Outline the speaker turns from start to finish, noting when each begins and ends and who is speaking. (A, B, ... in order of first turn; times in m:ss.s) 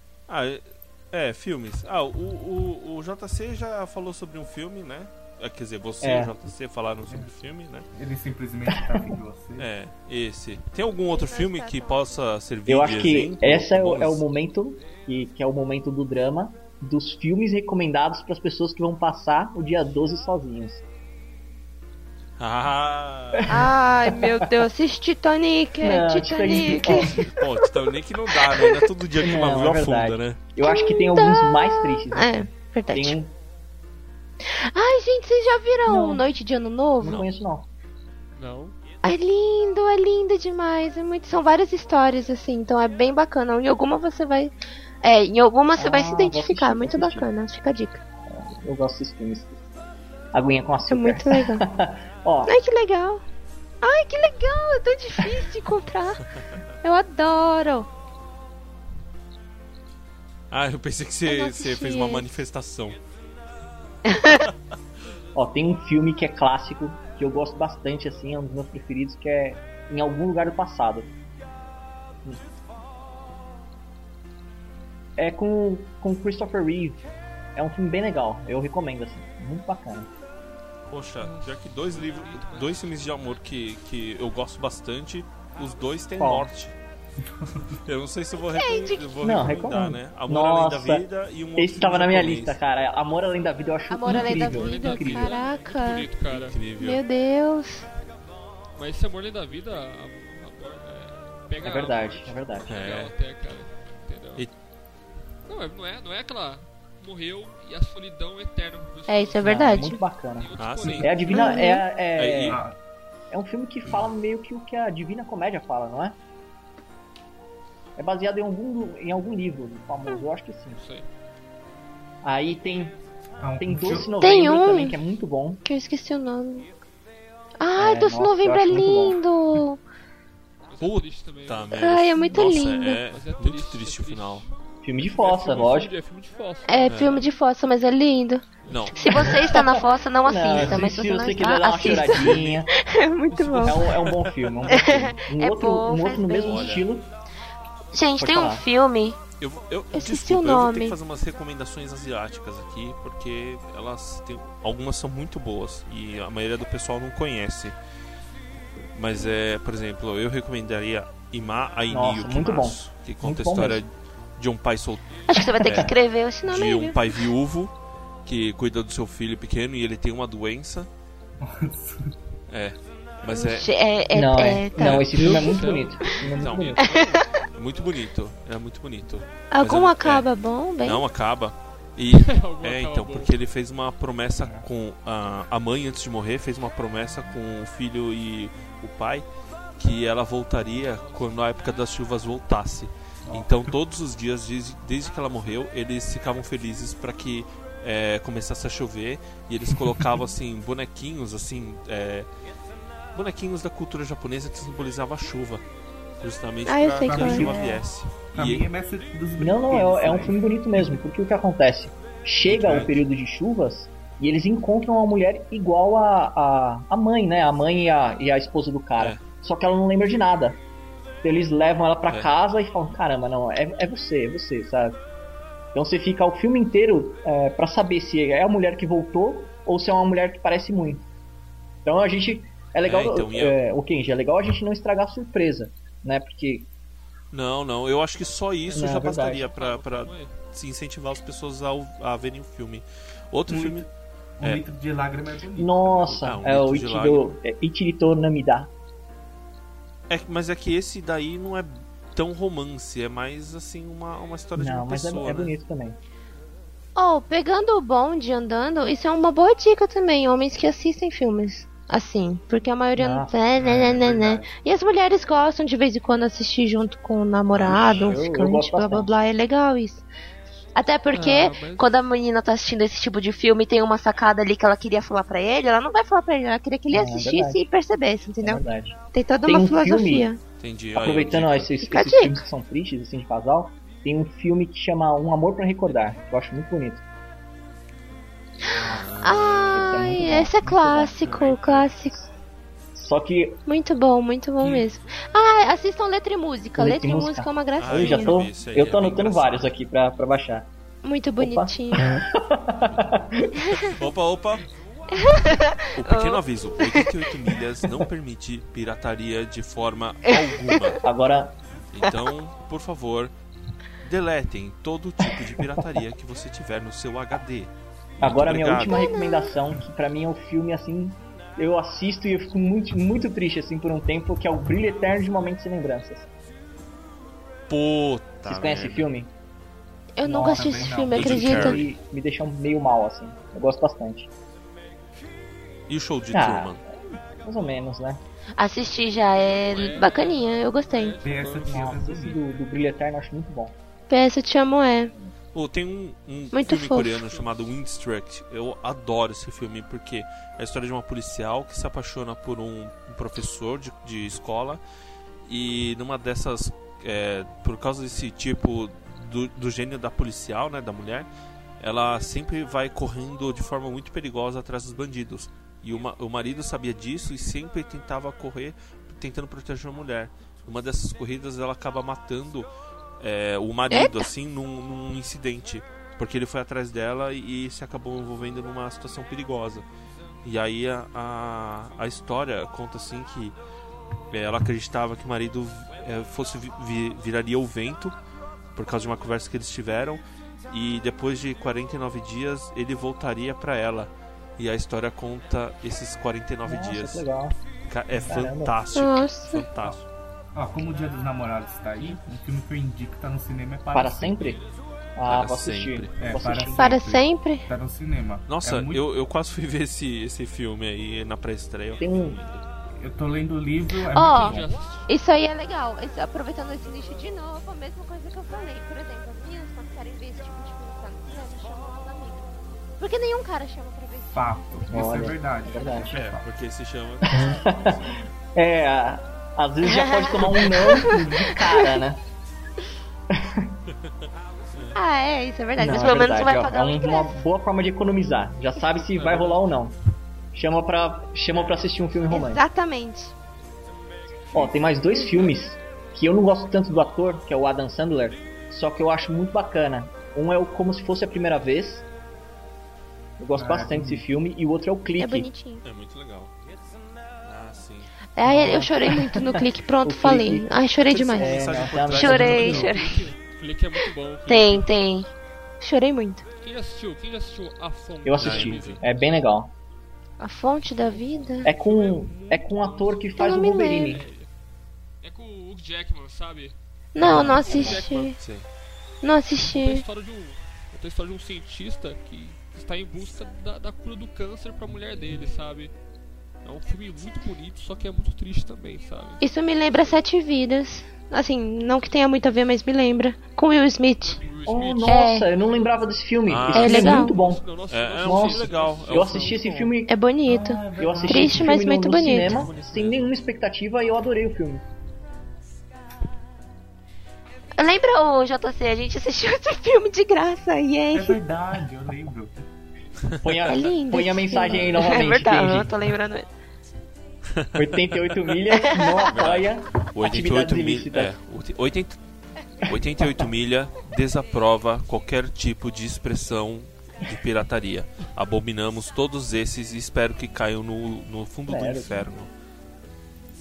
0:00.3-0:07.9 A
0:06.0-0:06.3 B
0:07.9-0:09.7 C
0:08.7-0:09.1 B
0:09.6-0:14.2 A
0:11.0-0:12.1 D
0:12.7-0:20.8 B
0:22.4-0:23.6 A
0:23.3-0:24.5 B
0:23.5-0:27.2 D
0:25.8-0:27.2 B
0:26.8-0:30.4 A
0:28.5-0:28.8 D
0:29.2-0:33.3 B
0:30.6-0:33.2 D
0:34.4-0:37.2 D
0:35.8-0:36.2 B
0:37.0-0:37.7 B
0:37.0-0:37.3 A
0:38.3-0:38.8 E
0:39.0-0:48.0 D
0:45.8-0:47.3 B
0:48.3-0:49.6 B
0:50.3-0:52.5 B
0:50.9-0:51.6 D
0:52.4-0:53.2 D
0:53.8-0:57.9 D
1:00.5-1:03.0 A
1:01.2-1:02.3 D
1:05.3-1:11.1 B
1:15.2-1:20.1 B
1:20.9-1:26.7 A
1:21.2-1:22.8 E
1:26.2-1:26.5 B
1:27.3-1:27.7 C
1:27.8-1:32.6 A
1:28.4-1:29.2 D
1:29.2-1:35.3 B
1:33.9-1:36.1 D
1:34.1-1:36.6 E
1:36.3-1:37.0 A
1:36.8-1:37.8 D
1:38.8-1:44.4 E
1:41.6-1:42.7 B
1:42.7-1:43.1 A
1:45.5-1:51.5 E
1:49.1-1:50.0 D
1:49.4-1:52.6 B
1:50.6-1:51.2 A
1:51.3-1:51.8 D
1:52.2-1:52.6 A
1:52.5-1:52.8 C
1:53.3-1:56.2 B
1:58.0-2:00.8 B
2:00.7-2:01.1 E
2:02.2-2:03.0 B
2:03.4-2:04.1 C
2:03.6-2:05.6 B
2:04.1-2:04.9 D
2:05.6-2:06.7 D
2:07.6-2:09.8 D
2:07.8-2:09.2 B
2:10.7-2:11.7 E
2:10.8-2:14.4 A
2:11.7-2:13.0 D
2:13.1-2:17.3 E
2:14.8-2:15.9 B
2:16.7-2:24.0 D
2:16.9-2:17.2 A
2:18.6-2:19.4 A
2:19.4-2:22.7 B
2:21.8-2:22.6 A
2:23.3-2:23.8 E
2:23.6-2:27.1 B
2:24.7-2:26.8 D
2:26.4-2:26.9 A
2:27.9-2:29.2 D
2:28.1-2:28.6 B
2:29.4-2:37.8 A
2:29.9-2:31.0 D
2:38.9-2:47.7 A
2:41.9-2:43.8 B
2:45.3-2:47.0 D
2:48.2-2:50.9 A
2:51.4-2:52.1 C
2:52.5-2:53.7 A
2:53.3-2:55.1 D
2:54.1-2:56.8 B
2:54.8-2:55.5 A
2:55.1-2:57.2 E
2:56.3-2:57.0 A
2:57.5-3:00.3 A
2:59.5-3:01.0 D
3:00.8-3:09.3 A
3:02.2-3:03.3 E
3:04.4-3:04.6 C
3:09.8-3:22.3 A
3:13.2-3:13.7 C
3:19.8-3:20.1 C
3:23.1-3:25.6 A
3:26.2-3:28.6 A
3:26.6-3:27.7 D
3:27.0-3:27.8 C
3:28.3-3:31.0 C
3:29.4-3:40.6 B
3:32.4-3:32.9 A
3:41.2-3:45.0 B
3:45.7-3:51.0 B
3:51.8-3:56.7 B
3:52.8-3:53.6 A
3:57.3-4:03.9 A
3:58.7-3:59.5 B
3:58.7-4:00.4 E
4:03.5-4:03.9 C
4:04.4-4:06.2 C
4:05.6-4:08.7 B
4:06.1-4:07.4 A
4:10.1-4:15.5 A
4:14.6-4:16.0 B
4:17.0-4:30.0 D
4:23.0-4:23.3 B
4:23.6-4:24.6 C
4:27.5-4:28.2 A
4:27.7-4:29.1 B
4:30.7-4:40.4 D
4:31.1-4:31.9 E
4:36.9-4:37.6 B
4:38.4-4:40.3 B
4:40.6-4:41.7 A
4:40.9-4:47.0 B
4:41.8-4:42.4 D
4:48.7-4:49.8 A
4:48.7-4:52.1 D
4:49.7-4:51.3 B
4:51.1-4:51.8 C
4:52.9-4:53.6 B
4:53.6-4:58.4 D
4:56.8-5:00.7 B
4:57.8-4:59.7 A
5:01.0-5:02.2 D
5:01.4-5:03.8 B
5:03.6-5:03.9 D
5:03.9-5:04.6 A
5:05.1-5:07.1 D
5:06.0-5:11.0 A
5:10.4-5:10.8 D
5:11.0-5:11.6 B
5:11.9-5:13.3 A
5:14.0-5:19.0 A
5:18.2-5:26.3 B
5:18.8-5:19.5 D
5:27.7-5:29.1 A
5:28.4-5:29.3 B
5:30.2-5:31.8 D
5:30.2-5:31.9 C
5:31.1-5:31.8 A
5:31.2-5:34.3 B
5:35.9-5:36.8 A
5:36.3-5:38.2 B
5:38.6-5:41.2 D
5:39.5-5:42.0 E
5:41.2-5:42.4 C
5:41.7-5:43.7 B
5:44.1-5:45.1 D
5:45.5-5:54.8 A
5:46.5-5:47.2 D
5:47.1-5:47.5 E
5:55.4-6:01.3 A
6:01.8-6:12.7 A
6:13.2-6:19.8 A
6:13.9-6:14.3 D
6:20.4-6:23.6 A
6:24.3-6:28.2 A
6:28.7-6:37.2 A
6:36.6-6:37.5 B
6:37.9-6:40.0 A
6:38.2-6:38.8 B
6:38.9-6:39.6 D
6:40.5-6:44.6 C
6:43.9-6:44.6 B
6:45.2-6:47.0 B
6:45.3-6:46.2 A
6:46.2-6:49.0 C
6:46.8-6:47.7 D
6:48.5-6:52.6 A
6:52.0-6:52.4 B
6:53.0-6:54.6 C
6:54.1-7:06.1 D
6:54.3-6:55.1 E
7:04.3-7:06.5 C
7:04.9-7:06.1 B
7:06.1-7:08.1 A
7:07.3-7:12.2 B
7:09.8-7:12.0 D
7:11.0-7:11.5 C
7:13.3-7:13.8 B
7:14.9-7:17.4 D
7:15.8-7:19.9 B
7:19.1-7:19.6 E
7:20.5-7:22.6 B
7:21.5-7:21.9 A
7:22.3-7:23.3 D
7:24.5-7:32.0 B
7:33.4-7:35.5 B
7:33.5-7:34.2 C
7:35.2-7:35.8 D
7:35.8-7:36.6 A
7:37.4-7:38.1 A
7:38.4-7:43.2 D
7:38.4-7:40.7 B
7:41.1-7:43.0 A
7:41.4-7:42.9 B
7:42.3-7:44.9 E
7:44.5-7:46.4 D
7:46.6-7:49.3 E
7:48.2-7:49.7 B
7:48.4-7:49.0 A
7:50.4-7:51.7 D
7:51.0-7:54.5 E
7:51.6-7:54.2 B
7:53.4-7:54.2 D
7:55.2-7:56.7 E
7:57.1-7:58.4 D
7:57.2-7:58.7 A
7:57.2-7:58.4 E
7:59.2-8:00.0 D
7:59.7-8:05.9 E
8:06.6-8:09.4 E
8:09.4-8:14.4 D
8:14.2-8:15.3 E
8:14.7-8:17.6 B
8:15.1-8:15.5 D
8:16.4-8:17.3 A
8:16.6-8:19.9 E
8:16.7-8:17.3 D
8:17.9-8:19.8 A
8:18.2-8:20.2 B
8:20.1-8:22.6 D
8:20.4-8:21.8 C
8:21.0-8:24.8 B
8:22.2-8:23.3 A
8:27.8-8:31.4 D
8:31.1-8:32.5 C
8:33.2-8:33.7 A
8:33.4-8:35.9 B
8:33.7-8:36.5 D
8:37.5-8:38.2 A
8:37.7-8:41.3 B
8:38.8-8:39.3 D
8:39.3-8:42.2 A
8:42.8-8:52.5 A
8:51.7-8:52.3 B